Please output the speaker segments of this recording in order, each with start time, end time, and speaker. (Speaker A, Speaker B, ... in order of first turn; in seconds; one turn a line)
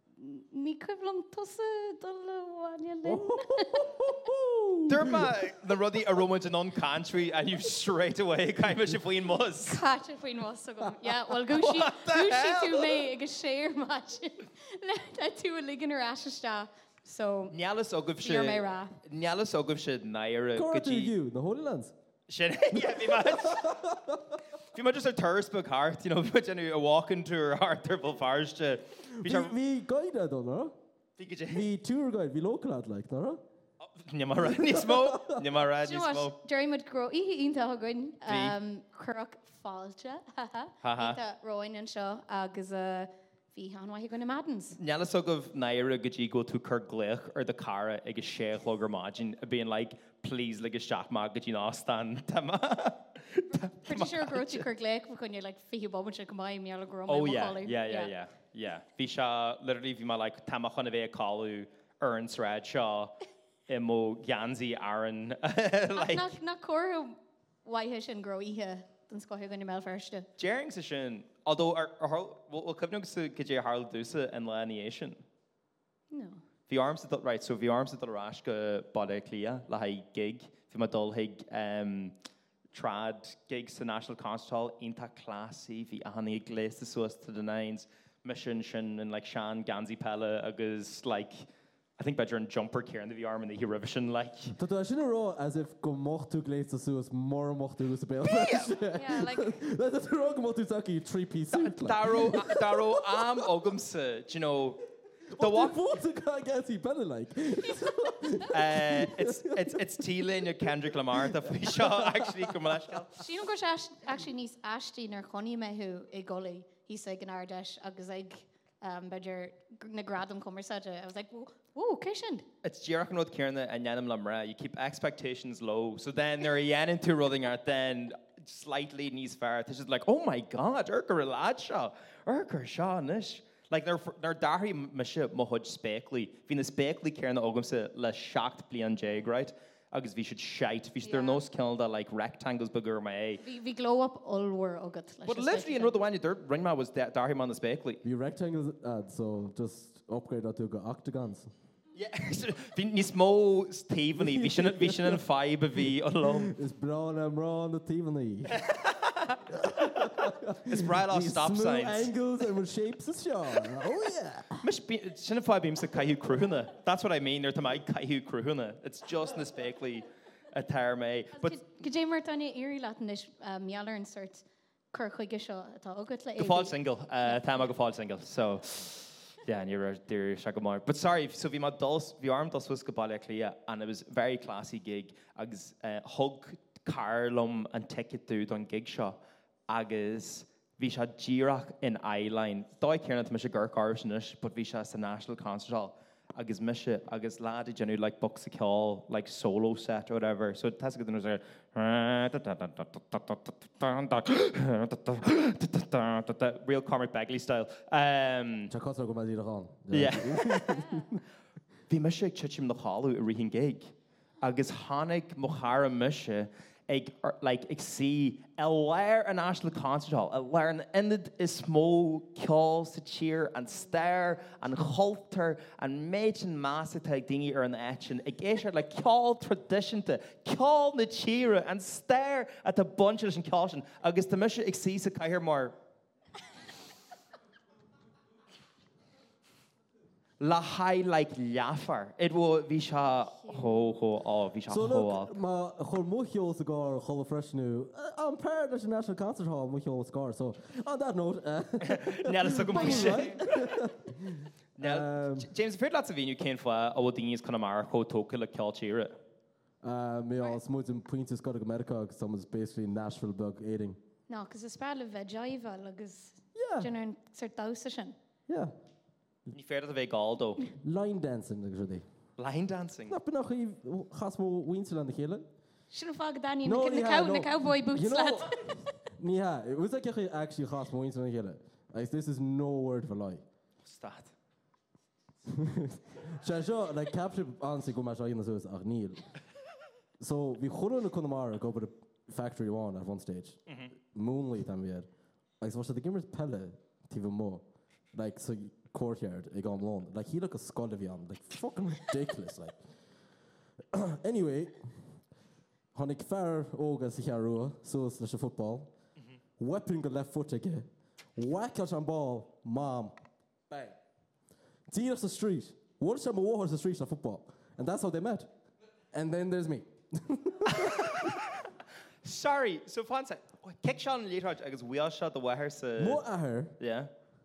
Speaker A: 0.2-3.9
Speaker B: 3.0-5.5
Speaker C: 4.9-9.8
Speaker A: 9.7-17.6
Speaker C: 11.5-13.0
Speaker C: 17.5-21.1
Speaker A: 18.2-18.9
Speaker B: 20.6-21.9
Speaker C: 22.3-23.8
Speaker B: 22.7-24.4
Speaker C: 24.6-29.5
Speaker B: 29.1-30.8
Speaker C: 31.2-31.7
Speaker B: 31.5-33.4
Speaker C: 33.8-36.3
Speaker B: 34.4-35.4
Speaker A: 35.8-44.8
Speaker C: 38.3-38.6
Speaker C: 40.8-41.2
Speaker C: 44.8-54.7
Speaker A: 53.5-58.1
Speaker C: 57.1-63.1
Speaker C: 63.7-66.3
Speaker A: 66.0-70.3
Speaker C: 70.4-75.2
Speaker A: 76.1-76.4
Speaker C: 76.7-82.2
Speaker C: 82.7-91.5
Speaker C: 92.0-94.6
Speaker B: 94.6-103.5
Speaker C: 98.2-98.7
Speaker A: 98.9-99.6
Speaker C: 101.5-104.8
Speaker B: 105.3-112.8
Speaker C: 105.3-105.8
Speaker C: 108.5-113.2
Speaker A: 113.2-122.5
Speaker C: 122.6-143.4
Speaker A: 141.0-141.4
Speaker A: 143.4-146.0
Speaker C: 145.2-148.0
Speaker B: 148.0-151.5
Speaker C: 152.0-156.6
Speaker B: 154.2-155.2
Speaker B: 156.2-158.6
Speaker C: 158.5-162.1
Speaker B: 159.5-164.7
Speaker C: 164.6-171.6
Speaker A: 171.4-177.7
Speaker C: 176.4-208.7
Speaker B: 208.7-211.2
Speaker C: 209.9-211.1
Speaker C: 211.9-235.7
Speaker C: 240.4-245.3
Speaker A: 243.5-243.8
Speaker B: 244.7-255.5
Speaker C: 251.8-253.8
Speaker A: 252.7-253.4
Speaker C: 254.8-259.2
Speaker B: 259.8-264.0
Speaker A: 264.3-268.2
Speaker B: 266.6-266.9
Speaker B: 268.5-268.8
Speaker C: 269.5-270.7
Speaker B: 270.8-272.1
Speaker C: 272.4-273.2
Speaker B: 273.1-275.5
Speaker A: 275.9-278.8
Speaker B: 276.6-283.4
Speaker C: 283.9-284.3
Speaker B: 285.5-289.3
Speaker B: 290.2-293.6
Speaker C: 293.7-293.9
Speaker B: 294.1-295.1
Speaker B: 295.6-302.8
Speaker B: 303.9-305.1
Speaker B: 305.9-308.9
Speaker B: 309.6-314.0
Speaker B: 314.9-318.5
Speaker B: 319.1-321.4
Speaker C: 320.7-321.7
Speaker C: 322.2-326.2
Speaker B: 326.0-326.8
Speaker C: 326.8-327.1